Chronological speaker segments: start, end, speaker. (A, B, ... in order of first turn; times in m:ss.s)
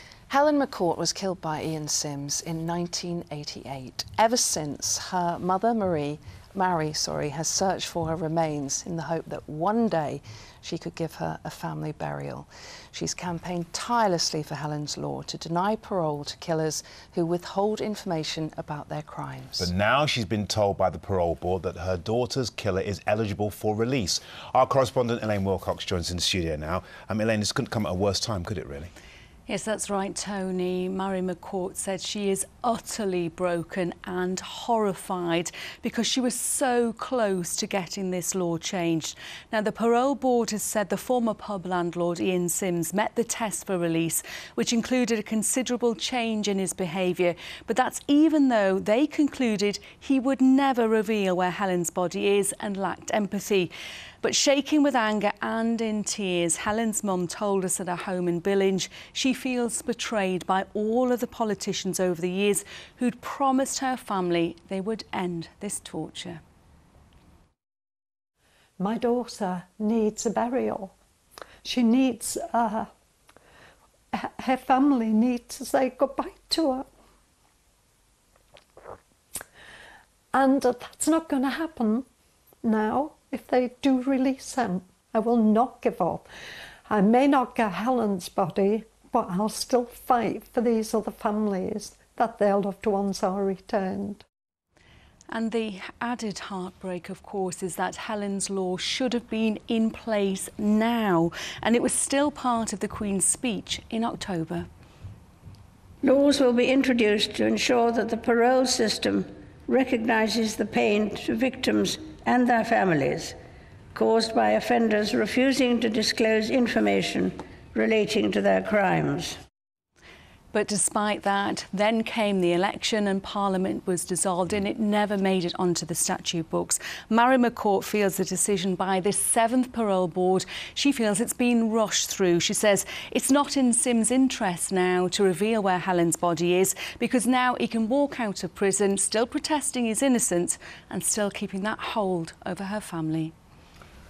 0:00.3-0:19.7 A
0:19.6-0:28.9 B
0:29.5-0:53.7 C
0:54.2-1:06.4 C
1:08.8-1:10.9 D
1:11.6-1:12.9 D
1:14.1-1:16.9 D
1:20.3-1:22.0 D
1:22.6-1:26.3 D
1:26.9-1:34.2 D
1:35.3-1:44.7 C
1:46.0-1:53.3 E
1:53.9-1:59.4 E
2:00.5-2:23.3 C